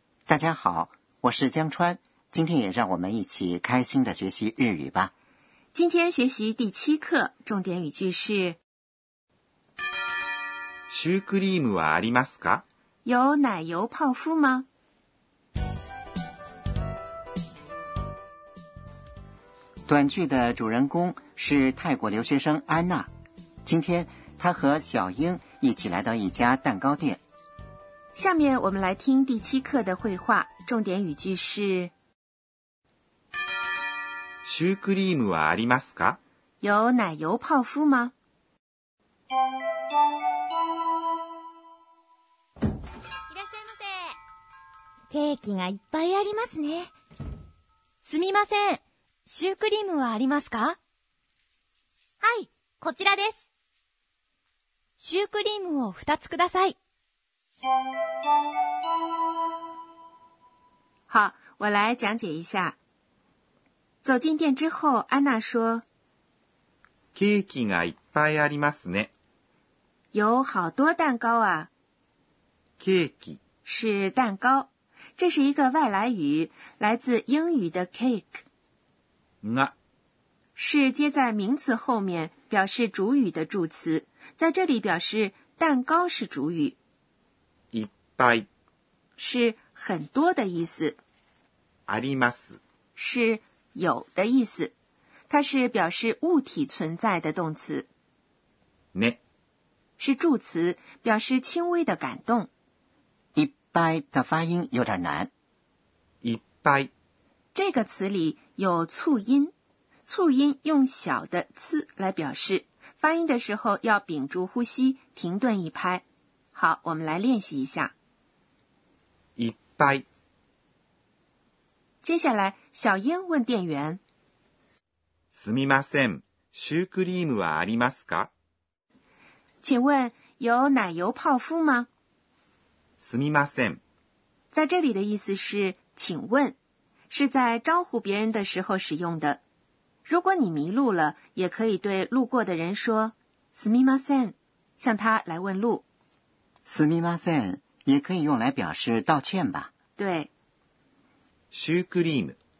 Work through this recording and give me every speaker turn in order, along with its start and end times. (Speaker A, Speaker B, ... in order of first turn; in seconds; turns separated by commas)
Speaker A: 0.3-5.1, Speaker B: 5.7-8.6, Speaker C: 10.9-12.6, Speaker B: 13.0-14.7, Speaker A: 19.9-23.1, Speaker A: 23.6-27.2, Speaker B: 28.1-31.9, Speaker C: 34.4-36.2, Speaker B: 36.6-38.1, Speaker D: 43.3-44.0, Speaker D: 45.1-46.9, Speaker D: 48.0-50.8, Speaker D: 52.2-53.4, Speaker D: 55.0-56.8, Speaker B: 61.1-62.8, Speaker B: 64.0-65.8, Speaker C: 67.1-69.1, Speaker B: 70.1-71.7, Speaker C: 72.8-73.4, Speaker B: 73.6-78.4, Speaker C: 79.4-79.7, Speaker B: 80.5-86.8, Speaker C: 87.7-88.5, Speaker B: 89.2-91.0, Speaker C: 91.9-92.6, Speaker B: 93.0-94.7, Speaker B: 95.3-97.9, Speaker C: 98.9-99.2, Speaker B: 100.0-102.5, Speaker A: 103.3-105.3, Speaker C: 106.2-106.9, Speaker B: 107.5-109.5, Speaker B: 110.1-117.9, Speaker C: 119.4-120.0, Speaker B: 122.0-124.0, Speaker C: 125.3-128.3, Speaker B: 129.6-131.9, Speaker C: 133.0-133.8, Speaker B: 134.5-136.6, Speaker B: 137.1-139.4, Speaker B: 140.1-145.8, Speaker A: 146.6-149.7, Speaker B: 150.0-150.3, Speaker C: 151.5-152.4